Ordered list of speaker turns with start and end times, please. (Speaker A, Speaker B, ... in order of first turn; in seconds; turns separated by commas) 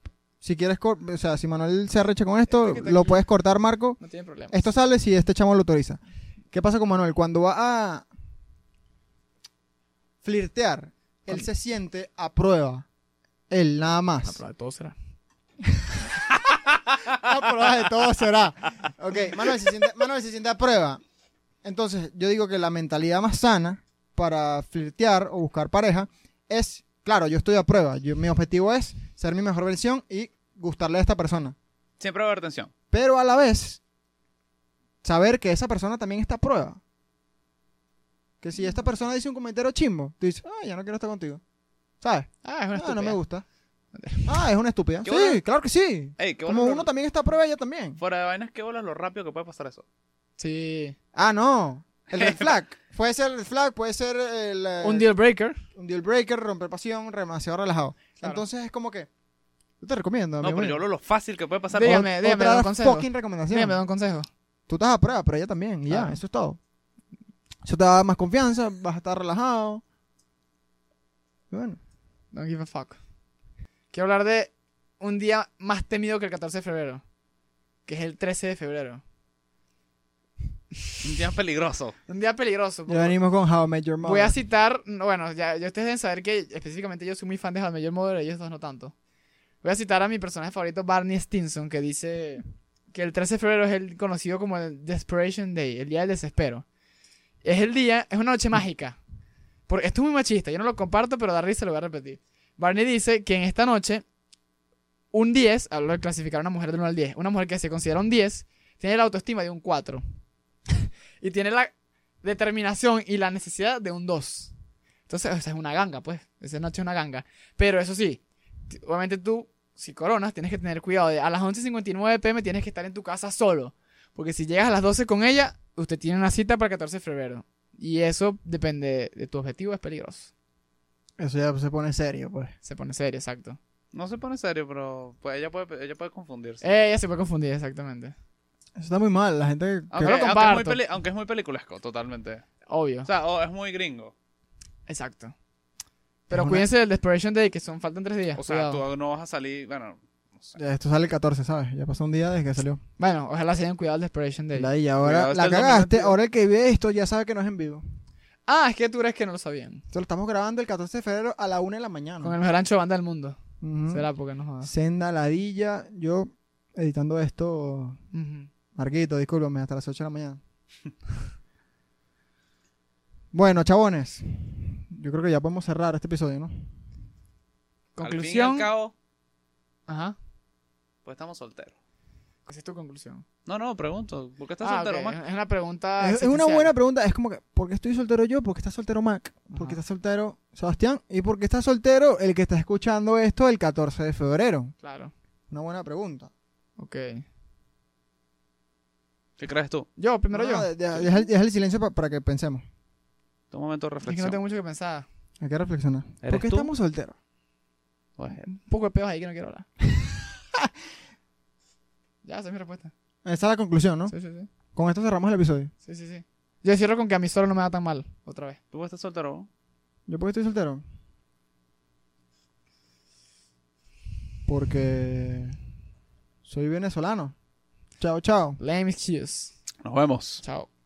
Speaker A: 0.4-4.0, Speaker B: 2.5-3.2, Speaker B: 4.0-4.6, Speaker A: 4.5-6.0, Speaker A: 6.5-8.1, Speaker A: 10.2-12.9, Speaker A: 13.5-14.4, Speaker B: 14.2-14.9, Speaker A: 17.1-21.0, Speaker A: 21.6-31.6, Speaker C: 32.0-32.7, Speaker A: 32.9-33.8, Speaker A: 35.0-36.8, Speaker A: 38.4-41.4, Speaker A: 42.0-43.5, Speaker B: 42.5-43.2, Speaker B: 43.9-44.3, Speaker A: 44.2-48.0, Speaker C: 45.0-45.4, Speaker C: 46.2-46.9, Speaker C: 48.0-49.9, Speaker B: 50.4-51.0, Speaker A: 51.1-55.1, Speaker C: 52.2-52.5, Speaker B: 54.8-55.6, Speaker A: 55.7-59.1, Speaker A: 59.8-60.8, Speaker C: 60.4-62.0, Speaker B: 61.8-64.3, Speaker A: 61.8-63.8, Speaker A: 64.7-66.6, Speaker B: 65.9-66.2, Speaker A: 67.6-69.8, Speaker A: 71.5-71.8, Speaker B: 72.3-73.0, Speaker B: 73.9-77.0, Speaker B: 77.9-79.0, Speaker C: 81.0-82.0, Speaker B: 82.1-83.2, Speaker A: 82.9-84.4, Speaker B: 84.0-88.9, Speaker B: 89.6-96.7, Speaker B: 97.4-99.0, Speaker B: 99.7-104.0, Speaker B: 105.1-110.0, Speaker B: 111.2-114.5, Speaker B: 115.1-130.3, Speaker A: 131.2-132.6, Speaker B: 132.6-133.6, Speaker C: 133.9-136.7, Speaker B: 136.6-138.1, Speaker A: 138.8-140.2, Speaker C: 139.9-142.4, Speaker B: 140.0-140.8, Speaker B: 142.7-143.1, Speaker C: 143.1-144.1, Speaker B: 144.9-145.3, Speaker B: 146.3-148.8, Speaker A: 146.3-146.7, Speaker C: 148.4-150.6, Speaker A: 150.6-152.8, Speaker B: 153.0-154.7, Speaker A: 154.5-157.8, Speaker C: 155.0-156.2, Speaker B: 158.5-159.8, Speaker A: 159.9-162.3, Speaker B: 162.2-163.4, Speaker A: 163.6-164.0, Speaker B: 163.9-164.7, Speaker A: 164.6-168.0, Speaker B: 168.1-168.5, Speaker A: 168.8-170.4, Speaker A: 173.3-176.7, Speaker B: 178.0-178.7, Speaker C: 178.0-178.9, Speaker B: 179.9-180.2, Speaker C: 181.1-181.8, Speaker B: 182.5-183.2, Speaker C: 183.5-185.2, Speaker B: 184.6-186.7, Speaker A: 186.0-194.8, Speaker B: 189.5-189.8, Speaker B: 194.8-195.1, Speaker A: 195.5-196.3, Speaker B: 196.8-197.2, Speaker C: 199.4-199.9, Speaker B: 200.0-201.0, Speaker A: 200.3-202.6, Speaker C: 203.5-204.4, Speaker B: 204.1-205.1, Speaker A: 205.4-207.2, Speaker C: 206.2-206.7, Speaker C: 208.2-208.4, Speaker B: 208.4-209.7, Speaker B: 212.2-212.9, Speaker A: 213.2-214.1, Speaker B: 214.1-214.5, Speaker A: 214.7-215.7, Speaker B: 215.8-218.6, Speaker C: 218.7-219.5, Speaker A: 220.1-220.8, Speaker A: 224.5-225.6, Speaker A: 226.4-227.3, Speaker A: 228.0-228.6, Speaker B: 228.6-229.6, Speaker C: 229.8-230.4, Speaker B: 230.4-230.7